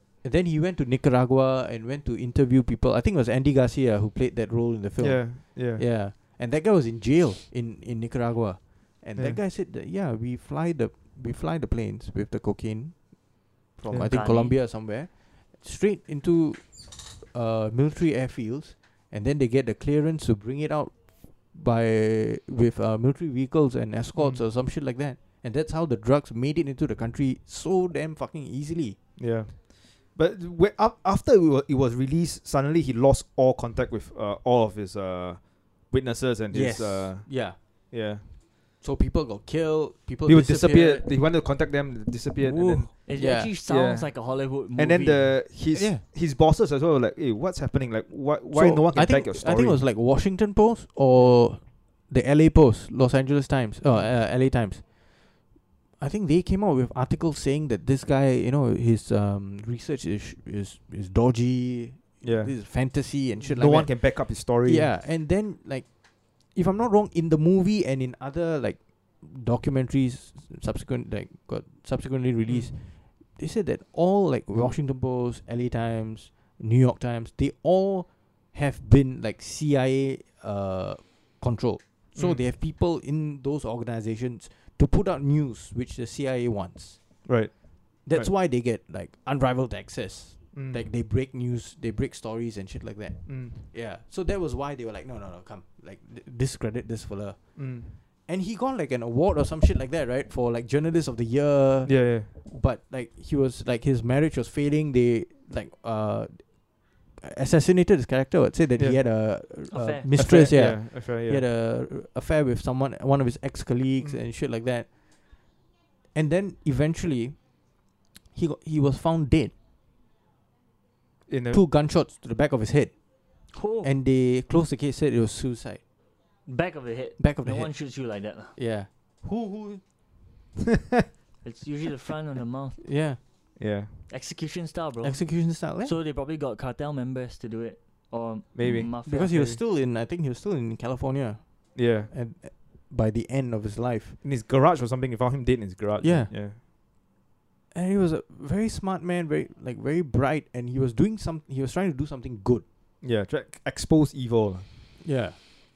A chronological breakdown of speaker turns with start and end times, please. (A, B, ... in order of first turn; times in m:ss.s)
0:00.2-0:29.0 A
0:05.0-0:05.8 B
0:13.9-0:14.6 C
0:24.2-0:24.4 B
0:29.2-0:38.3 B
0:36.5-0:41.1 A
0:40.2-0:49.8 B
0:42.4-0:43.5 A
0:42.9-0:45.4 C
0:45.7-0:46.0 A
0:48.5-0:54.9 A
0:56.0-1:05.9 A
1:02.2-1:04.9 B
1:06.5-1:27.0 A
1:12.5-1:12.7 B
1:22.2-1:22.4 B
1:27.2-1:28.3 B
1:28.1-1:46.6 A
1:30.5-1:30.9 B
1:33.3-1:33.6 B
1:37.6-1:38.0 B
1:41.9-1:42.3 B
1:47.2-1:54.9 A
1:49.7-1:50.2 C
1:50.2-1:51.4 B
1:56.2-1:57.5 A
1:58.3-1:59.5 A
2:01.3-2:01.6 B
2:01.5-2:02.9 A
2:03.5-2:03.9 C
2:03.8-2:05.8 A
2:06.4-2:08.6 C
2:07.2-2:09.8 A
2:11.4-2:12.8 C
2:12.8-2:13.2 A
2:13.6-2:14.1 B
2:14.1-2:19.4 C
2:15.0-2:15.9 A
2:18.6-2:19.6 B
2:19.0-2:24.2 A
2:21.8-2:22.1 B
2:24.2-2:26.6 B
2:26.0-2:26.3 A
2:27.7-2:32.6 A
2:33.0-2:34.7 B
2:35.0-2:35.4 A